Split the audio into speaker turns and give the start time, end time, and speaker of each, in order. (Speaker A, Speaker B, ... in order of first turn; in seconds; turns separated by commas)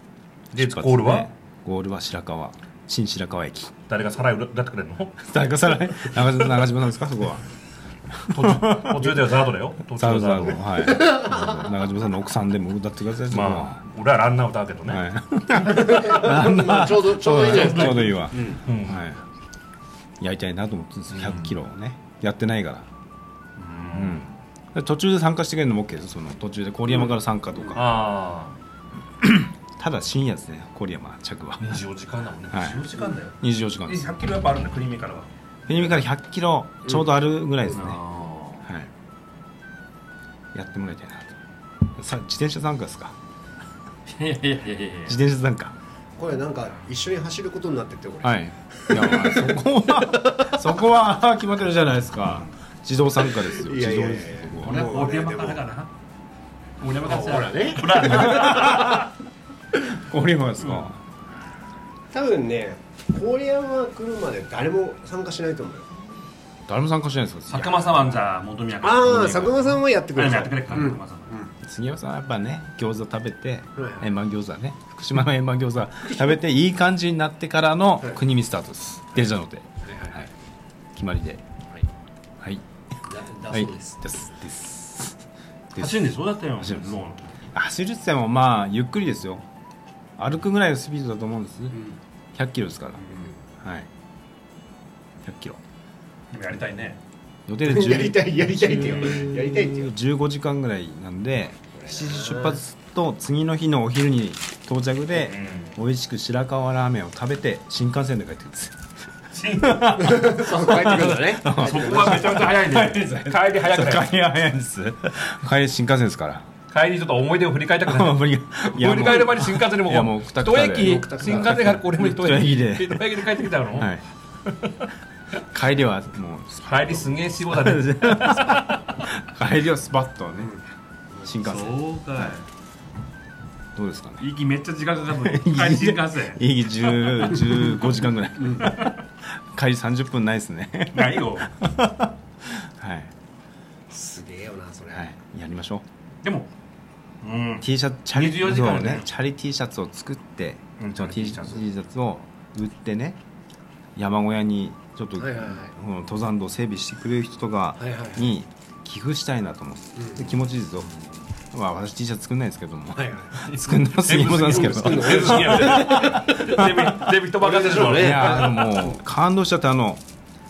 Speaker A: 0.5-3.7, Speaker B: 0.6-1.3, Speaker B: 3.9-5.3, Speaker A: 5.2-7.5, Speaker A: 8.1-9.2, Speaker B: 8.3-10.7, Speaker A: 10.0-13.8, Speaker C: 10.9-11.4, Speaker B: 13.3-15.0, Speaker A: 14.9-19.2, Speaker C: 15.7-18.6, Speaker B: 15.7-16.1, Speaker B: 17.4-19.1, Speaker A: 20.2-22.9, Speaker B: 21.1-21.6, Speaker B: 23.6-24.3, Speaker A: 23.9-28.0, Speaker B: 27.7-28.6, Speaker A: 29.2-31.8, Speaker B: 31.6-36.0, Speaker A: 32.5-34.1, Speaker A: 35.7-38.0, Speaker B: 37.7-38.7, Speaker A: 38.6-38.9, Speaker A: 40.5-41.4, Speaker A: 41.9-43.2, Speaker B: 44.1-45.2, Speaker A: 45.0-45.8, Speaker C: 46.2-49.6, Speaker A: 48.2-54.9, Speaker C: 50.2-50.5, Speaker C: 53.4-55.6, Speaker B: 54.6-55.9, Speaker B: 56.8-59.1, Speaker C: 57.0-58.6, Speaker A: 58.0-59.1, Speaker A: 59.9-61.0, Speaker B: 60.6-60.9, Speaker C: 62.1-65.9, Speaker A: 66.7-68.3, Speaker B: 67.5-71.3, Speaker C: 68.8-71.5, Speaker A: 71.6-80.3, Speaker C: 73.8-74.1, Speaker C: 79.8-80.2, Speaker A: 81.0-81.5, Speaker C: 83.1-84.1, Speaker A: 83.5-85.2, Speaker A: 85.7-87.0, Speaker B: 85.8-87.3, Speaker A: 87.5-89.5, Speaker A: 90.2-91.8, Speaker C: 91.7-92.0, Speaker A: 92.3-93.0, Speaker C: 93.0-93.4, Speaker A: 93.6-93.9, Speaker A: 95.2-95.6, Speaker B: 96.3-97.0, Speaker A: 97.5-108.8, Speaker C: 97.6-99.9, Speaker B: 98.8-99.2, Speaker C: 101.8-102.6, Speaker B: 105.1-105.8, Speaker B: 109.3-110.4, Speaker A: 109.6-116.5, Speaker C: 110.0-112.5, Speaker B: 111.5-114.1, Speaker B: 116.7-124.9, Speaker A: 117.8-124.0, Speaker C: 120.9-121.8, Speaker A: 125.5-130.6, Speaker B: 126.7-129.0, Speaker C: 130.4-131.3, Speaker A: 131.2-132.4, Speaker B: 131.4-132.5, Speaker A: 133.8-134.3, Speaker B: 134.2-139.0, Speaker A: 135.1-143.1, Speaker B: 140.9-141.5, Speaker C: 143.9-145.1, Speaker A: 144.9-145.8, Speaker B: 146.2-146.5, Speaker B: 147.2-149.1, Speaker A: 147.6-153.2, Speaker B: 150.8-151.7, Speaker A: 153.9-167.1, Speaker C: 155.2-155.7, Speaker C: 157.8-158.3, Speaker C: 160.0-160.3, Speaker C: 163.0-163.3, Speaker B: 163.5-168.9, Speaker C: 164.5-166.6, Speaker C: 167.4-168.7, Speaker A: 167.8-170.0